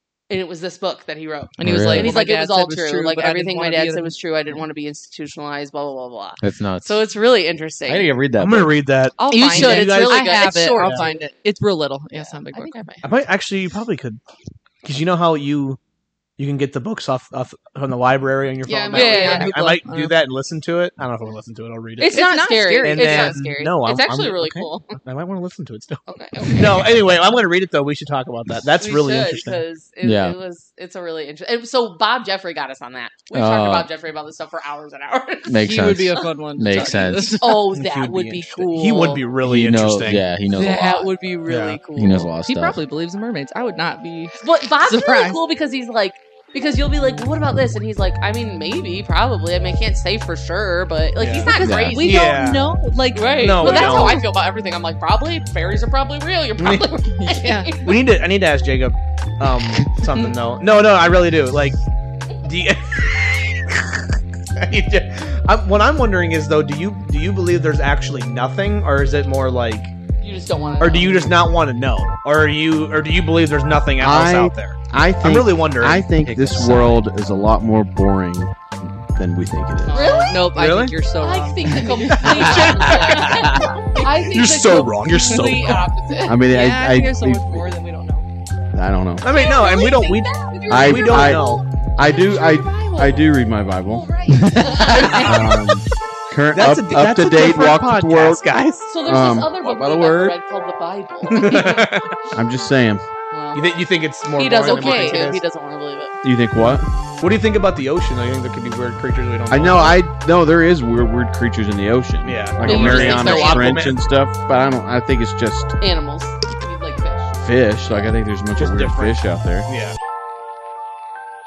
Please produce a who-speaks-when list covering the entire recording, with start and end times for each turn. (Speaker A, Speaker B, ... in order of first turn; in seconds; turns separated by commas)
Speaker A: 0.3-8.1, Speaker B: 1.6-4.6, Speaker C: 1.6-2.1, Speaker C: 6.4-7.0, Speaker C: 7.9-8.7, Speaker D: 8.4-11.1, Speaker B: 9.2-12.8, Speaker A: 9.3-11.2, Speaker A: 12.1-13.1, Speaker D: 13.0-14.2, Speaker D: 14.8-15.8, Speaker D: 16.4-22.2, Speaker B: 18.7-20.1, Speaker A: 18.9-19.6, Speaker A: 22.0-25.0, Speaker B: 22.0-23.4, Speaker D: 22.8-29.6, Speaker A: 26.1-26.9, Speaker A: 28.8-36.3, Speaker C: 30.0-30.4, Speaker C: 33.3-33.9, Speaker C: 35.5-37.4, Speaker B: 35.6-37.7, Speaker A: 37.4-39.2, Speaker D: 37.7-40.3, Speaker C: 39.4-41.1, Speaker B: 40.5-41.0, Speaker A: 40.5-42.3, Speaker D: 41.5-41.8, Speaker C: 42.0-42.8, Speaker B: 42.3-45.4, Speaker A: 44.4-52.3, Speaker D: 51.2-52.6, Speaker C: 51.6-52.0, Speaker B: 51.9-54.3, Speaker A: 53.1-57.9, Speaker D: 53.4-54.2, Speaker D: 56.6-56.9, Speaker B: 57.1-57.8, Speaker D: 57.8-61.8, Speaker D: 62.4-69.9, Speaker A: 70.2-71.4, Speaker D: 70.8-77.0, Speaker E: 74.0-80.0, Speaker B: 79.9-82.6, Speaker A: 79.9-80.5, Speaker D: 80.5-81.0, Speaker A: 81.2-86.4, Speaker D: 82.0-85.9, Speaker C: 82.5-83.6, Speaker E: 86.3-87.7, Speaker B: 86.5-88.3, Speaker E: 88.7-89.3, Speaker D: 89.2-91.6, Speaker A: 89.3-93.3, Speaker E: 90.7-91.4, Speaker E: 92.0-94.1, Speaker A: 93.8-95.7, Speaker C: 94.3-95.2, Speaker E: 94.8-98.4, Speaker D: 96.5-98.9, Speaker A: 98.9-101.8, Speaker E: 99.0-100.4, Speaker D: 101.3-102.2, Speaker B: 101.5-101.8, Speaker E: 102.3-103.0, Speaker B: 103.3-103.6, Speaker D: 103.5-105.4, Speaker A: 104.4-106.1, Speaker B: 104.7-105.2, Speaker E: 106.2-106.9, Speaker D: 107.2-110.0, Speaker E: 109.5-115.8, Speaker D: 112.2-114.0, Speaker A: 112.6-113.9, Speaker A: 115.8-117.3, Speaker E: 117.4-119.7, Speaker D: 118.6-120.0